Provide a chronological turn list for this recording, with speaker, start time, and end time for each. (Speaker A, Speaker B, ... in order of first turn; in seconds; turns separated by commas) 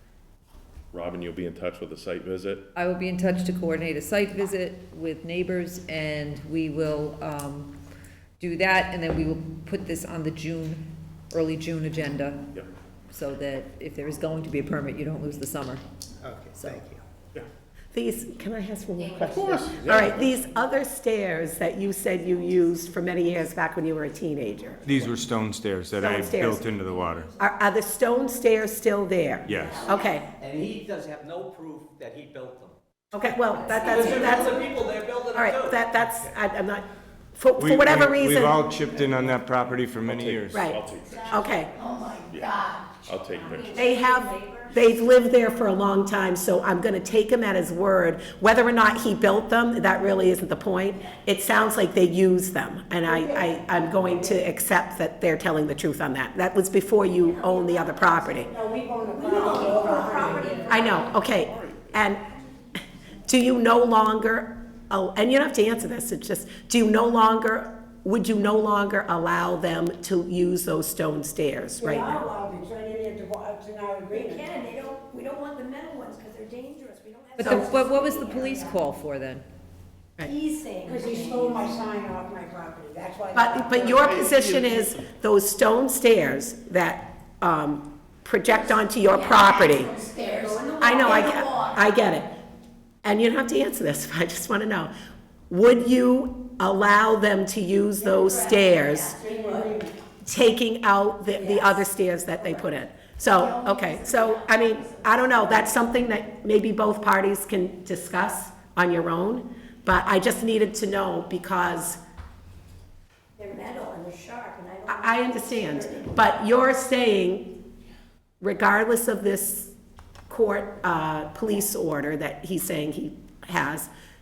Speaker A: 0.9-2.7, Speaker B: 2.7-7.7, Speaker B: 8.4-12.5, Speaker B: 13.1-15.8, Speaker B: 16.5-16.9, Speaker C: 17.9-25.1, Speaker D: 19.0-20.0, Speaker A: 19.3-20.3, Speaker D: 21.9-22.5, Speaker E: 24.8-27.2, Speaker C: 25.9-26.7, Speaker D: 26.8-27.4, Speaker C: 27.3-30.3, Speaker E: 29.5-29.8, Speaker D: 29.6-30.1, Speaker F: 30.4-32.7, Speaker C: 33.1-38.6, Speaker D: 33.7-34.5, Speaker F: 33.8-35.8, Speaker E: 37.6-40.6, Speaker A: 40.0-41.2, Speaker C: 40.5-41.7, Speaker D: 41.7-44.8, Speaker A: 43.0-43.8, Speaker C: 43.7-58.5, Speaker G: 53.0-53.5, Speaker G: 54.0-54.4, Speaker D: 57.2-58.3, Speaker G: 58.4-60.7, Speaker D: 59.1-61.0, Speaker C: 60.7-62.2, Speaker A: 60.9-61.8, Speaker C: 63.3-72.2, Speaker G: 71.8-74.7, Speaker D: 74.1-78.8, Speaker B: 77.4-79.4, Speaker D: 80.2-81.8, Speaker G: 80.8-84.3, Speaker C: 83.3-90.0, Speaker D: 88.5-91.9, Speaker G: 90.4-90.8, Speaker C: 90.8-92.3, Speaker C: 93.0-94.9, Speaker C: 95.5-99.2, Speaker D: 98.2-99.8, Speaker G: 99.2-100.0, Speaker C: 100.2-112.0, Speaker D: 101.3-101.7, Speaker D: 103.3-105.7, Speaker D: 113.4-116.2, Speaker C: 114.9-117.6, Speaker C: 118.4-119.7, Speaker C: 120.3-123.9